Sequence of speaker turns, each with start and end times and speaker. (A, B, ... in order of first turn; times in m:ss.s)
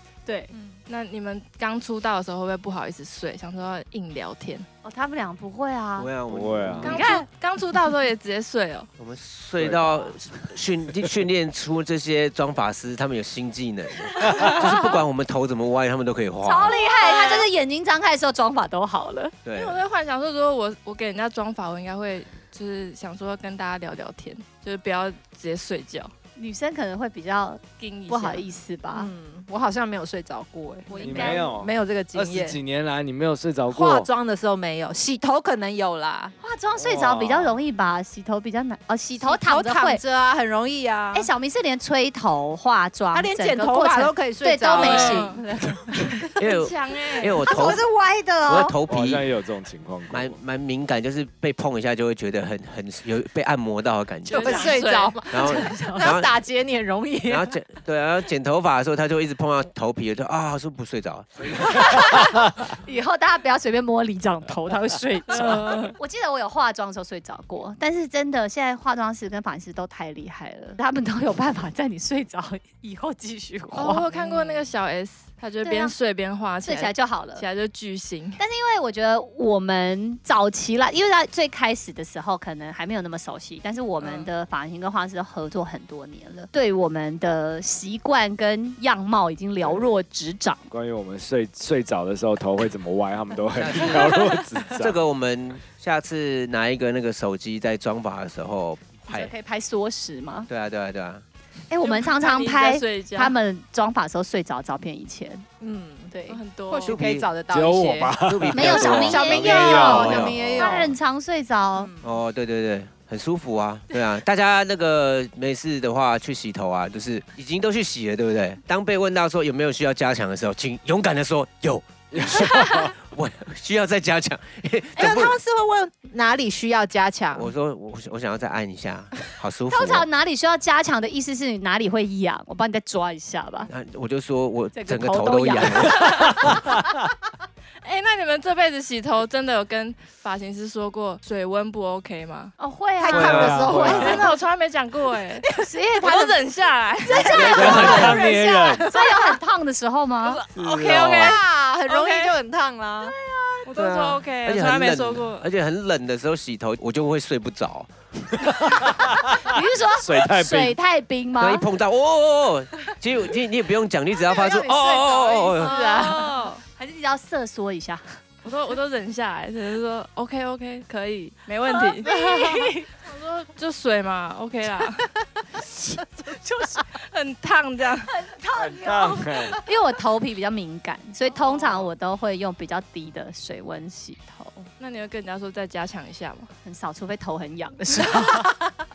0:00.2-0:00.5 A
0:00.5-0:00.8 B
0:00.9-0:04.7 C
0:04.8-0:06.1 A
0:06.0-0:07.0 D
0:06.3-0:07.0 E
0:06.8-0:08.9 C
0:06.8-0:07.2 A
0:09.0-0:16.7 D
0:09.6-0:10.1 E
0:14.4-0:14.7 A
0:16.4-0:19.4 A
0:16.8-0:17.5 C
0:19.4-0:19.8 D
0:19.5-0:26.1 C
0:26.4-0:29.1 A
0:27.8-0:28.5 C
0:28.9-0:32.6 B
0:30.9-0:31.5 A
0:31.0-0:34.1 E
0:33.7-0:36.3 B
0:36.4-0:40.0 A
0:36.8-0:37.6 E
0:39.2-0:41.3 B
0:41.1-0:46.2 A
0:43.1-0:45.3 B
0:44.7-0:45.4 C
0:46.4-0:47.8 D
0:46.4-0:47.5 C
0:47.4-0:48.8 B
0:48.4-0:49.3 D
0:48.9-0:50.4 E
0:50.1-0:54.8 D
0:54.3-0:57.5 B
0:54.3-0:55.2 C
0:55.3-0:56.3 D
0:55.3-0:56.1 A
0:57.3-1:01.6 D
1:01.8-1:14.6 A
1:05.3-1:05.9 C
1:13.7-1:18.4 C
1:15.6-1:15.9 A
1:16.6-1:17.4 A
1:18.4-1:30.7 A
1:24.0-1:24.3 C
1:29.6-1:29.9 E
1:30.7-1:35.0 E
1:33.5-1:39.3 D
1:39.1-1:40.5 A
1:40.5-1:41.2 D
1:41.7-1:45.4 A
1:41.8-1:43.4 C
1:45.6-1:46.1 B
1:46.1-1:46.4 A
1:46.3-1:47.0 C
1:46.7-1:50.9 B
1:46.8-1:47.3 D
1:47.5-1:50.9 E
1:48.2-1:50.4 D
1:48.5-1:51.9 A
1:51.8-1:52.2 B
1:52.0-2:05.4 D
2:02.1-2:02.9 E
2:05.0-2:07.5 B
2:07.3-2:10.0 D
2:09.7-2:13.7 A
2:13.7-2:16.5 D
2:14.7-2:16.0 A
2:15.9-2:16.4 C
2:17.8-2:22.5 C
2:22.6-2:24.4 A
2:23.0-2:24.4 B
2:23.1-2:23.6 D
2:23.1-2:24.2 E
2:23.8-2:25.5 C
2:25.4-2:25.7 B
2:25.5-2:26.4 A
2:26.0-2:28.8 C
2:27.0-2:30.4 A
2:27.1-2:29.4 B
2:27.3-2:28.2 D
2:27.4-2:28.9 E
2:30.2-2:33.5 B
2:30.6-2:31.4 D
2:30.6-2:32.4 C
2:33.6-2:35.5 C
2:33.7-2:37.9 D
2:38.4-2:40.8 E
2:39.4-2:41.7 A
2:41.4-2:45.8 D
2:44.3-2:48.2 A
2:44.5-2:46.2 B
2:45.6-2:46.6 C
2:48.4-2:55.1 C
2:51.9-2:52.9 A
2:55.8-2:56.8 A
2:56.8-2:58.2 C
2:58.1-3:04.7 A
2:58.5-2:59.6 E
3:01.3-3:01.9 C
3:04.8-3:06.5 C
3:06.6-3:08.6 A
3:08.2-3:08.5 B